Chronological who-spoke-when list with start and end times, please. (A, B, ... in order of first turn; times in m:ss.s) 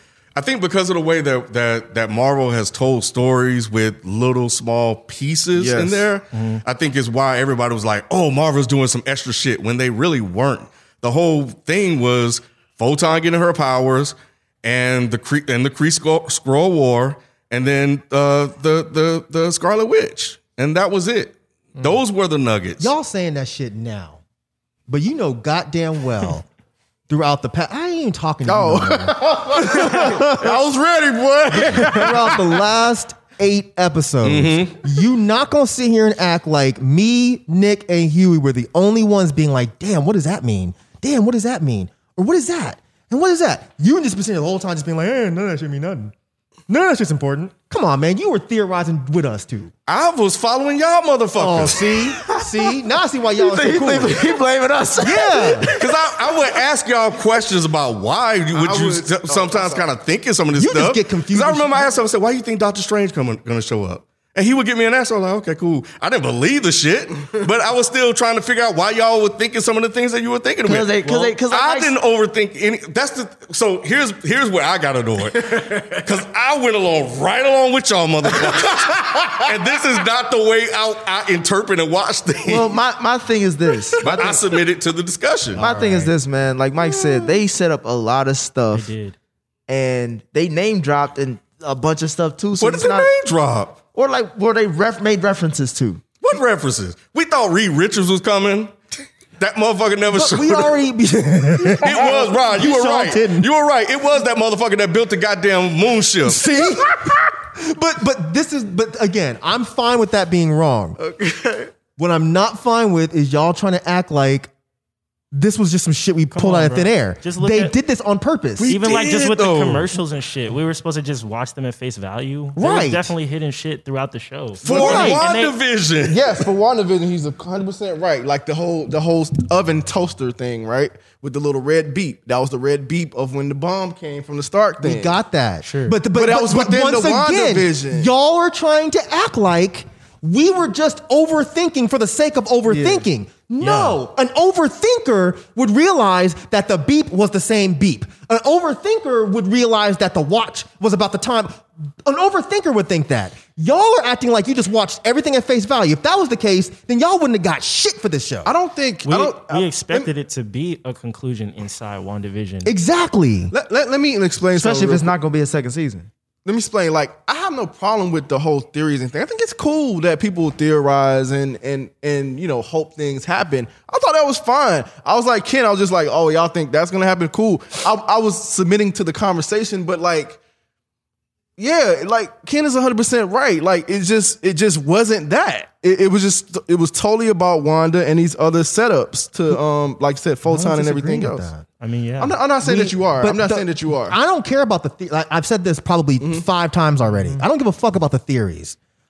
0:00.4-0:22.9 A
0:05.5-0:06.0 B
0:06.3-0:06.6 C
0:22.8-0:24.2 D
0:24.9-0:26.5 D
0:27.1-0:30.6 D
0:28.4-0:32.4 B
0:31.5-0:46.1 D
0:34.2-0:34.8 A
0:46.7-0:49.7 D
0:49.9-0:52.1 A
0:51.4-0:54.4 D
0:52.3-0:52.7 E
0:53.4-0:56.4 E
0:55.0-0:55.7 D
0:55.8-1:22.8 A
0:58.5-0:59.8 B
1:00.6-1:01.9 D
1:10.6-1:11.9 E
1:22.4-1:24.4 E
1:24.0-1:25.6 A
1:25.6-1:28.9 E
1:25.6-1:26.0 D
1:28.7-1:29.2 C
1:29.7-1:33.1 E
1:32.6-1:33.8 A
1:33.9-1:36.0 E
1:36.2-1:38.7 A
1:39.4-1:40.8 A
1:40.1-1:43.5 D
1:41.8-1:46.4 A
1:46.2-1:51.0 D
1:51.0-1:51.7 E
1:52.0-1:54.5 D
1:55.3-1:58.8 D
1:56.3-1:57.7 C
1:58.6-2:00.0 A
1:58.7-2:05.5 C
2:02.6-2:03.1 D
2:04.6-2:06.4 A
2:04.6-2:05.2 B
2:04.7-2:05.2 D
2:06.0-2:15.1 B
2:14.8-2:38.5 D
2:15.6-2:16.0 C
2:16.1-2:18.1 B
2:22.7-2:23.0 E
2:23.6-2:24.0 C
2:38.4-2:40.1 B
2:39.0-2:42.7 C
2:42.6-2:43.5 D
2:43.5-2:45.1 B
2:44.5-2:46.1 E
2:46.4-3:00.4 B
3:01.6-3:11.5 B
3:10.4-3:11.6 D
3:11.8-3:12.4 C
3:12.2-3:14.2 B
3:12.6-3:18.8 D